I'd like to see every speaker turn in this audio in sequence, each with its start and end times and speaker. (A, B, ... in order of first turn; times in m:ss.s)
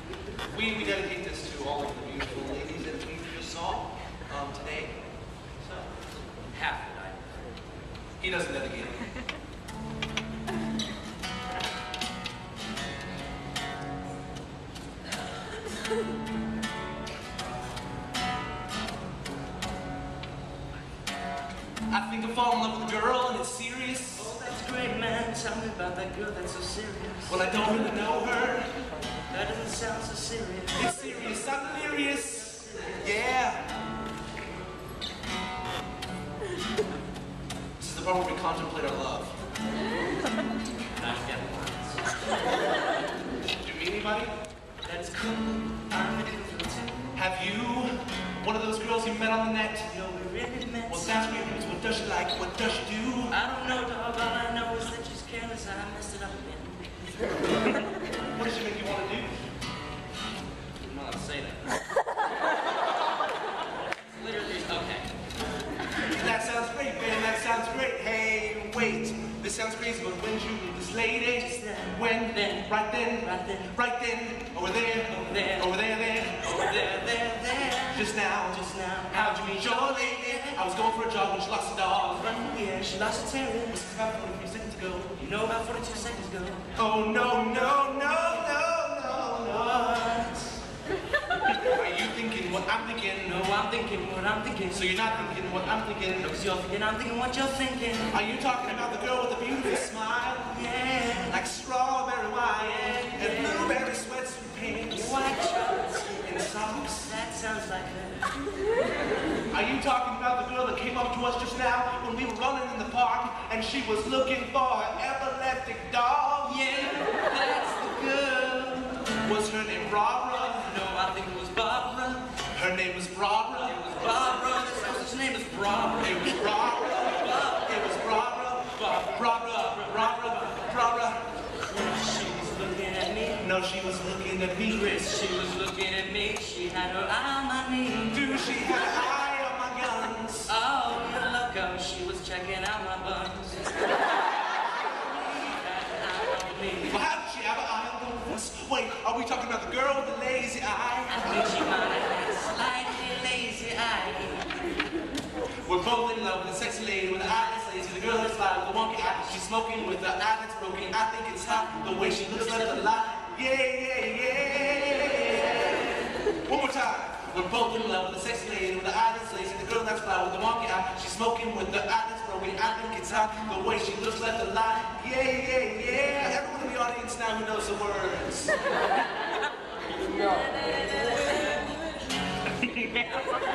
0:00.5-0:05.0 A
0:05.6-0:05.9 A
0:06.5-0:07.3 B
0:08.2-0:09.0 A
0:21.9-0:24.3 A
0:24.2-0:27.5 B
0:27.3-0:28.7 A
0:29.3-0:31.0 B
0:30.8-0:33.6 A
0:37.8-0:39.3 A
0:41.0-0:42.0 B
0:43.6-0:44.3 A
0:44.8-0:47.0 B
0:47.2-0:49.9 A
0:49.9-0:51.3 B
0:50.9-0:53.4 A
0:53.3-0:57.1 B
0:58.3-0:59.3 A
1:00.8-1:01.8 B
1:04.2-1:05.1 B
1:06.0-1:16.5 A
1:11.4-1:13.7 B
1:15.1-1:15.7 B
1:16.4-1:20.7 B
1:17.9-1:22.3 A
1:22.2-1:23.9 B
1:23.7-1:25.2 A
1:25.2-1:26.7 B
1:26.8-1:30.3 A
1:29.9-1:30.6 B
1:31.6-1:33.4 A
1:33.2-1:35.4 B
1:34.7-1:36.3 A
1:36.2-1:38.2 B
1:38.1-1:40.6 A
1:40.5-1:41.4 B
1:41.3-1:45.3 A
1:42.6-1:43.8 B
1:44.9-1:48.3 B
1:46.2-1:47.1 A
1:49.5-1:56.8 A
1:56.4-1:59.1 B
1:59.2-2:00.7 A
2:00.4-2:02.4 B
2:02.5-2:03.8 A
2:03.6-2:07.6 B
2:06.0-2:11.2 A
2:11.7-2:13.5 B
2:13.4-2:15.0 A
2:14.7-2:18.6 B
2:18.1-2:20.5 A
2:20.5-2:24.0 B
2:25.3-2:27.0 B
2:26.8-2:31.5 A
2:31.1-2:34.6 B
2:35.6-2:58.6 A
2:42.1-2:43.2 B